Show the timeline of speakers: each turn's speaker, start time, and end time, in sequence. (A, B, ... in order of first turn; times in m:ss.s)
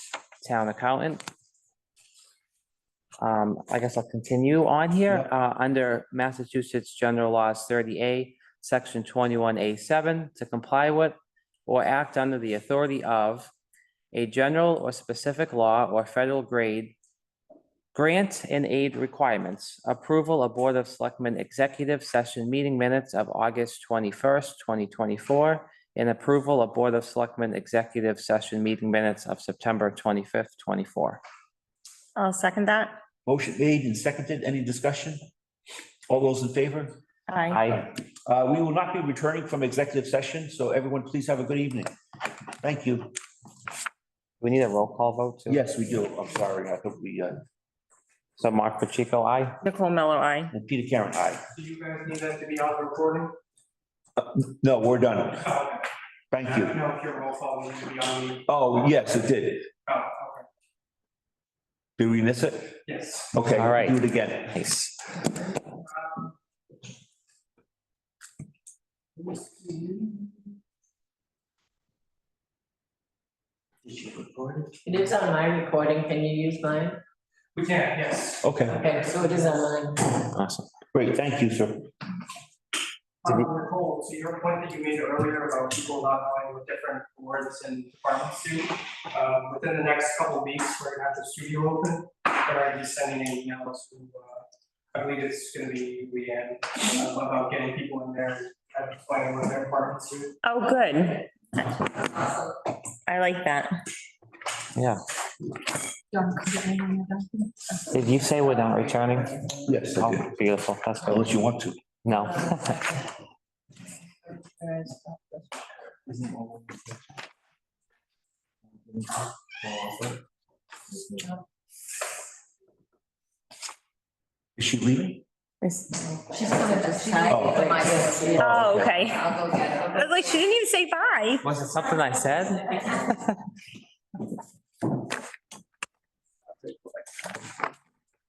0:00.4-0:01.2 A
0:03.2-0:13.5 A
0:14.1-0:17.0 A
0:17.9-0:31.2 A
0:32.2-0:33.0 B
0:33.3-0:35.2 C
0:36.1-0:37.0 C
0:37.3-0:37.6 B
0:37.5-0:37.8 A
0:37.7-0:41.9 C
0:42.6-0:43.1 C
0:44.4-0:45.6 A
0:45.5-0:47.4 C
0:48.4-0:49.6 A
0:49.6-0:50.5 B
0:50.5-0:51.4 C
0:51.6-0:53.3 D
0:54.2-0:55.5 C
0:55.4-0:55.9 D
0:56.3-0:56.8 C
0:56.4-0:58.7 D
0:58.5-0:59.7 C
0:59.9-1:00.4 D
1:02.0-1:02.8 C
1:02.9-1:03.3 D
1:03.3-1:04.6 C
1:03.5-1:05.0 A
1:13.9-1:14.6 C
1:14.8-1:17.0 E
1:17.6-1:18.6 D
1:18.4-1:18.8 C
1:18.8-1:20.3 E
1:20.3-1:20.7 A
1:20.9-1:21.9 C
1:23.2-1:40.4 D
1:40.4-1:42.0 B
1:43.1-1:43.8 B
1:46.3-1:47.1 B
1:47.9-1:49.4 A
1:49.6-1:50.3 C
1:49.9-1:51.3 A
1:51.0-1:51.8 C
1:52.0-1:52.8 A
1:54.6-1:55.0 E
2:04.6-2:05.2 C
2:05.6-2:06.0 B
2:06.3-2:10.3 E
2:07.3-2:07.8 C
2:08.3-2:09.3 B
2:08.4-2:09.0 C
2:09.9-2:11.4 B
2:11.4-2:13.4 A